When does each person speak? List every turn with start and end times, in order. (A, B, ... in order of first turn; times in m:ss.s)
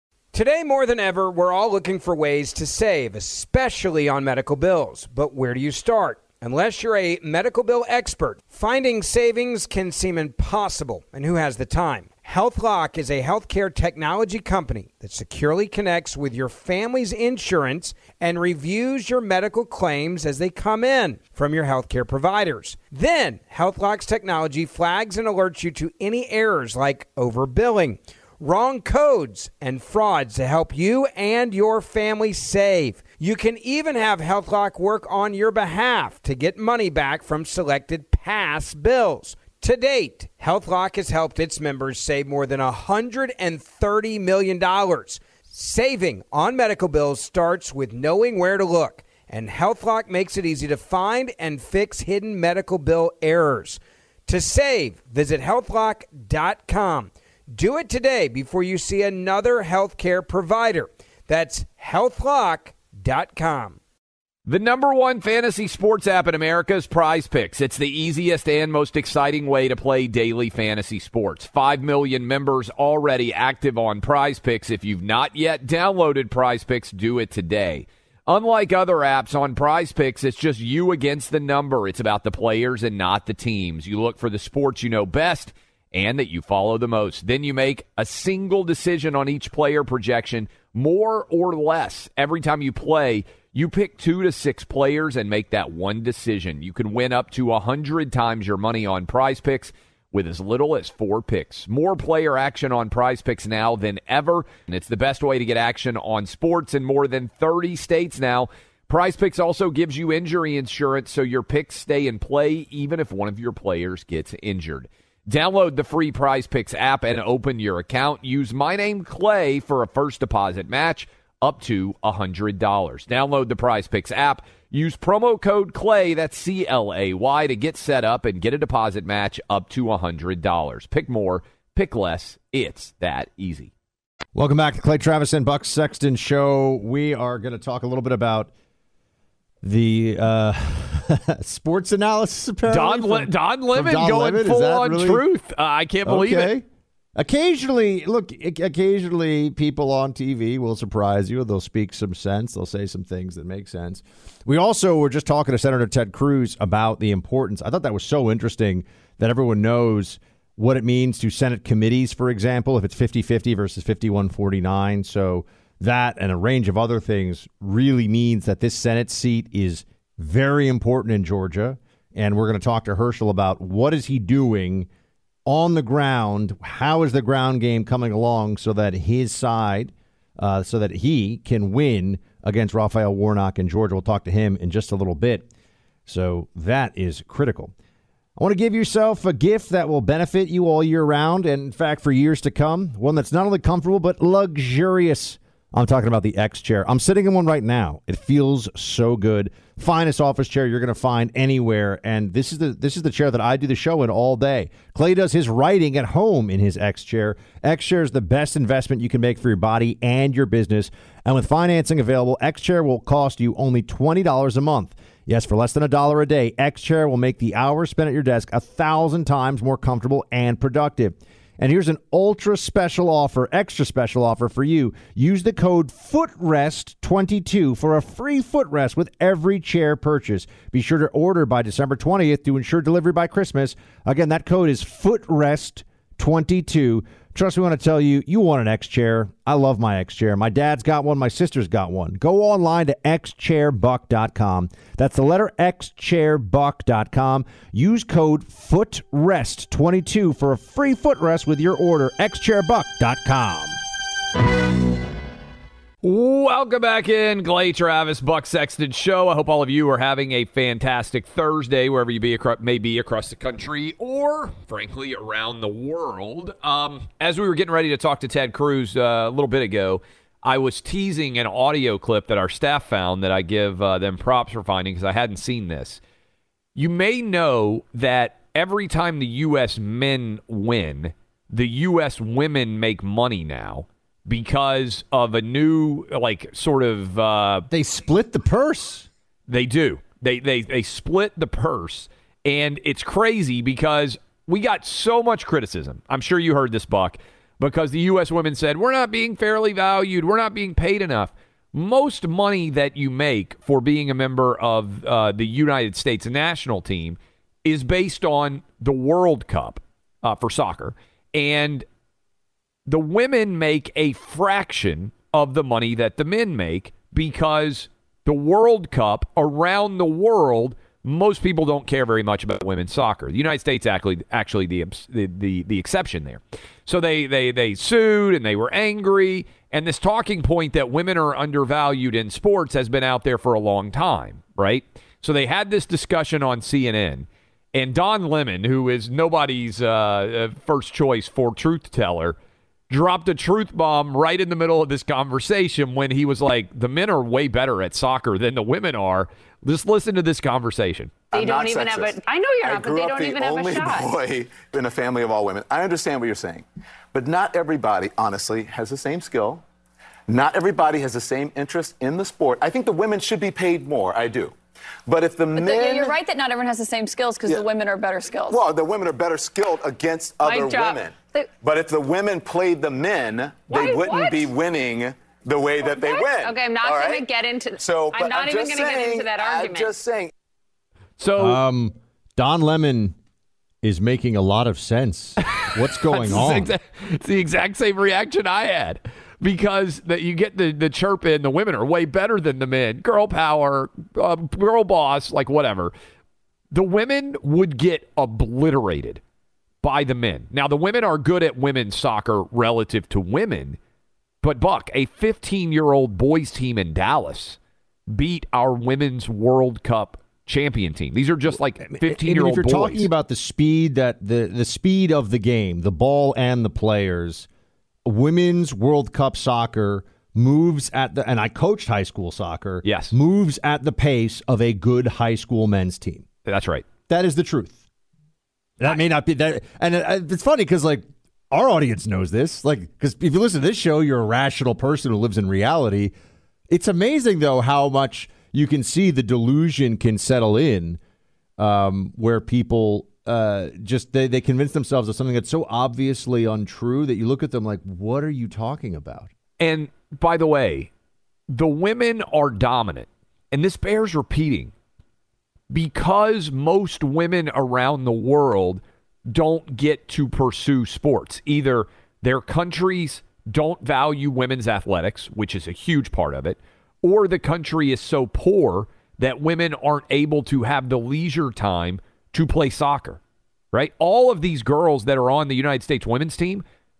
0:00.3-1:03.8 A
1:04.5-2:13.7 B
2:14.3-2:18.5 C
2:19.6-2:25.2 C
2:22.7-2:26.5 B
2:26.0-2:26.6 C
2:27.2-2:54.9 C
2:55.4-3:05.5 C
3:06.1-3:07.7 C
3:08.4-4:13.8 C
4:16.0-4:36.0 B
4:36.8-4:47.7 B
4:47.7-4:49.1 C
4:49.5-5:11.8 B
5:12.9-5:42.4 B
5:42.9-5:51.3 B
5:51.3-5:54.1 D
5:51.3-5:59.6 E
6:00.3-6:04.5 E
6:05.1-6:06.2 E
6:05.6-6:08.6 D
6:08.5-6:20.3 E
6:10.4-6:11.5 D
6:13.7-6:14.5 D
6:15.9-6:19.9 D
6:21.2-6:21.6 B
6:21.4-6:23.2 C
6:23.8-6:26.7 C
6:25.4-6:35.9 B
6:36.7-6:39.2 B
6:39.8-6:43.8 B
6:44.4-6:47.6 B
6:48.1-6:53.1 B
6:51.8-6:57.5 C
6:58.0-7:06.2 C
7:02.8-7:03.2 B
7:06.4-7:06.8 B
7:07.1-7:07.8 C
7:08.8-7:16.1 C
7:16.7-7:21.0 C
7:21.6-7:29.3 C
7:29.6-7:30.9 B
7:31.5-7:34.7 B
7:35.7-7:53.2 B
7:53.7-7:56.6 B